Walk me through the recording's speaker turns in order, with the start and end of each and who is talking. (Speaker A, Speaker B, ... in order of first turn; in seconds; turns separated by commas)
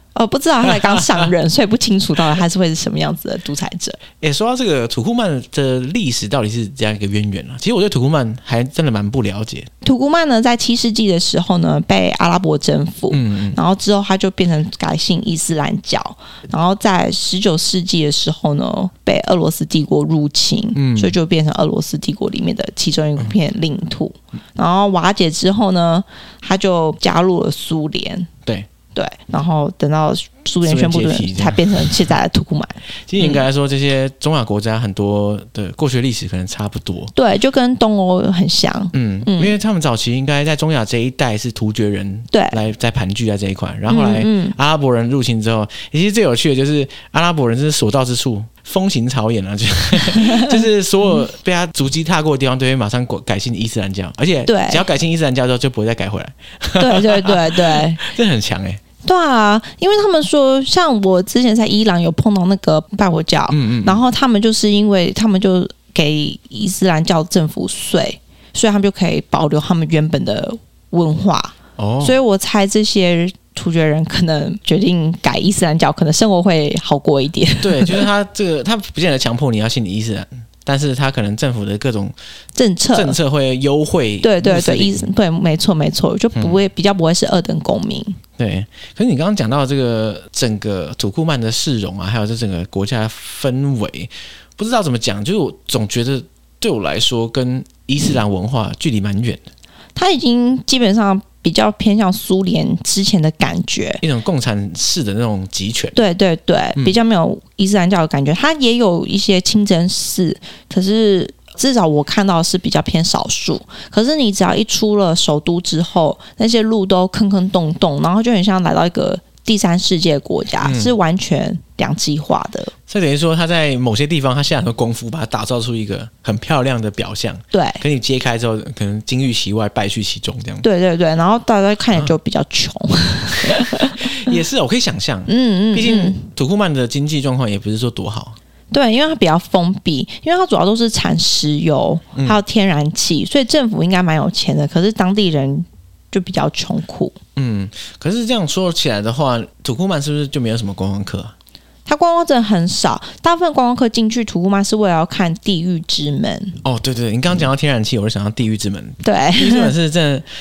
Speaker A: 0.1-4.0, Speaker B: 0.6-1.3, Speaker B: 4.2-9.7, Speaker A: 9.8-28.3, Speaker B: 13.1-13.6, Speaker B: 20.7-21.1, Speaker A: 28.9-33.4, Speaker B: 30.6-32.1, Speaker B: 33.1-37.1, Speaker A: 37.1-39.5, Speaker B: 38.9-58.8, Speaker A: 42.3-42.6, Speaker A: 43.9-44.5, Speaker A: 50.1-50.6, Speaker A: 54.5-54.8, Speaker A: 56.8-58.0, Speaker A: 59.0-78.1, Speaker B: 63.5-64.0, Speaker B: 71.8-72.2, Speaker B: 77.6-82.1, Speaker A: 82.5-83.2, Speaker B: 82.9-85.0, Speaker A: 84.2-88.2, Speaker B: 86.3-86.6, Speaker B: 88.4-99.4, Speaker A: 100.0-104.0, Speaker B: 104.0-106.0, Speaker A: 105.9-122.7, Speaker B: 120.6-120.9, Speaker B: 122.9-130.6, Speaker A: 127.5-127.8, Speaker A: 130.6-134.3, Speaker B: 133.5-138.4, Speaker A: 135.3-136.3, Speaker A: 138.7-147.2, Speaker B: 142.1-142.4, Speaker B: 147.3-151.3, Speaker A: 151.8-156.6, Speaker B: 156.6-160.2, Speaker A: 159.0-159.7